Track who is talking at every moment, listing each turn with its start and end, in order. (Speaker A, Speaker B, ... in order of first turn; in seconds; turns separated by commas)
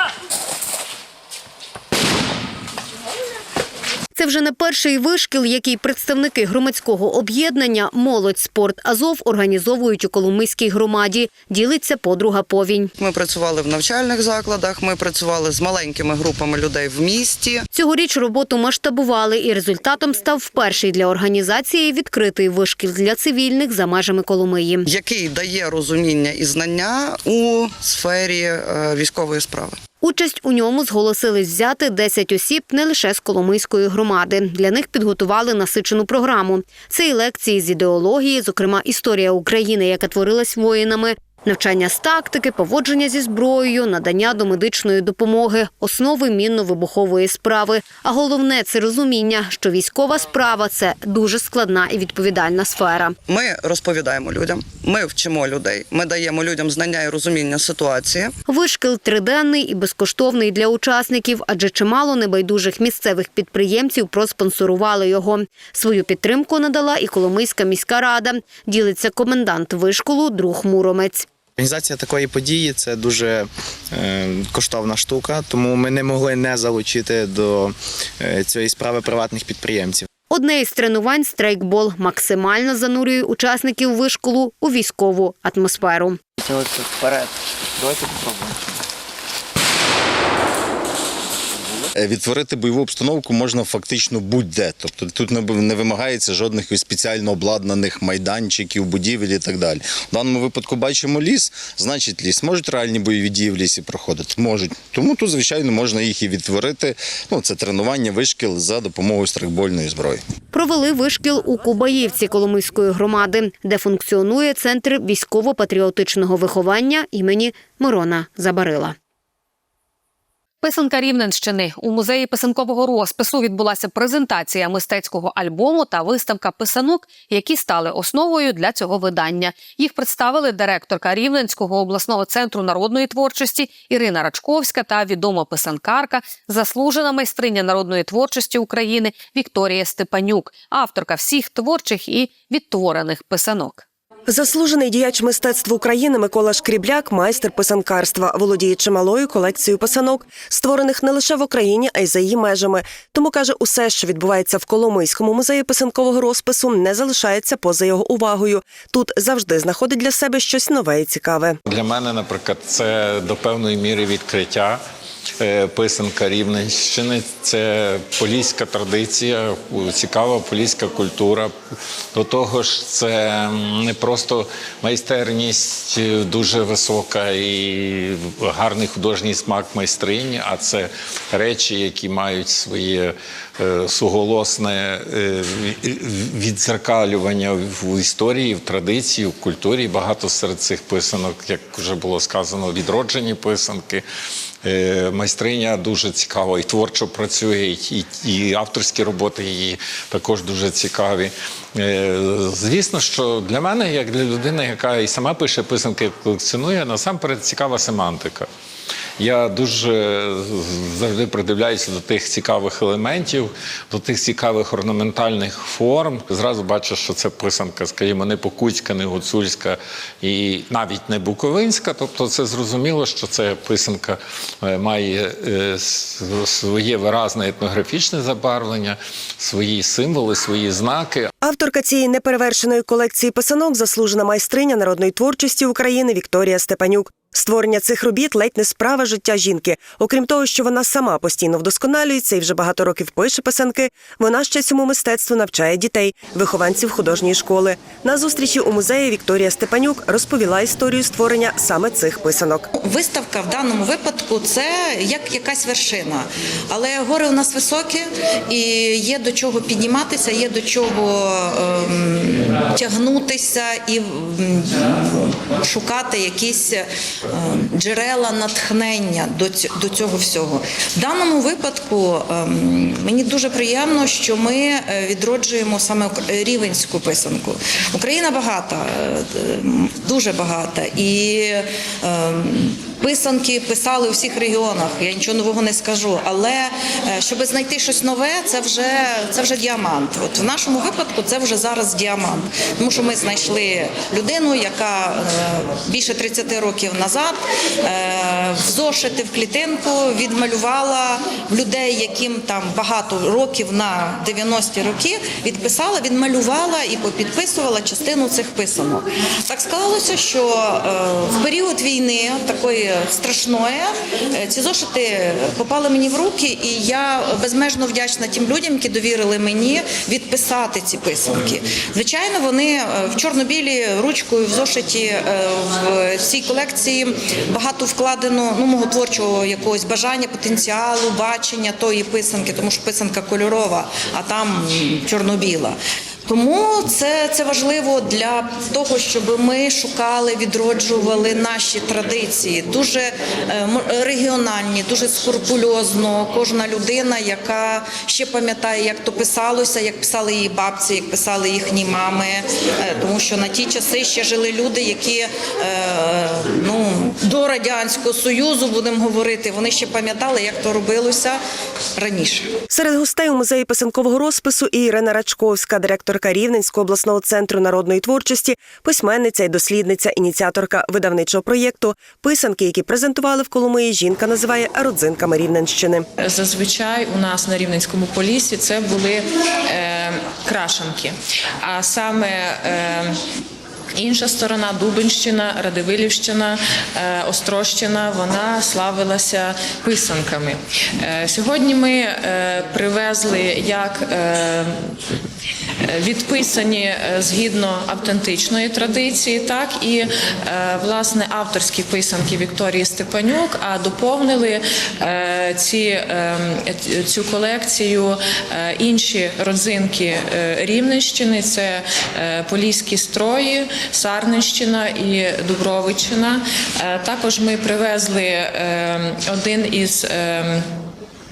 Speaker A: 4.2-12.9, Speaker B: 13.0-17.6, Speaker A: 17.7-24.9, Speaker B: 24.9-29.8, Speaker A: 30.0-53.1, Speaker B: 53.3-58.3, Speaker A: 58.5-71.2, Speaker C: 71.7-73.3, Speaker C: 74.0-77.7, Speaker C: 78.2-80.0, Speaker A: 80.3-86.2, Speaker D: 92.0-110.2, Speaker A: 110.5-118.9, Speaker E: 120.6-143.8, Speaker F: 144.3-161.6, Speaker G: 161.7-164.8, Speaker G: 165.4-171.5, Speaker G: 172.1-194.0, Speaker G: 194.6-208.5, Speaker G: 209.2-231.3, Speaker F: 231.4-252.7, Speaker H: 252.8-361.4, Speaker H: 361.9-362.5, Speaker F: 362.7-376.1, Speaker I: 376.2-383.1, Speaker I: 384.0-394.9, Speaker I: 395.9-420.7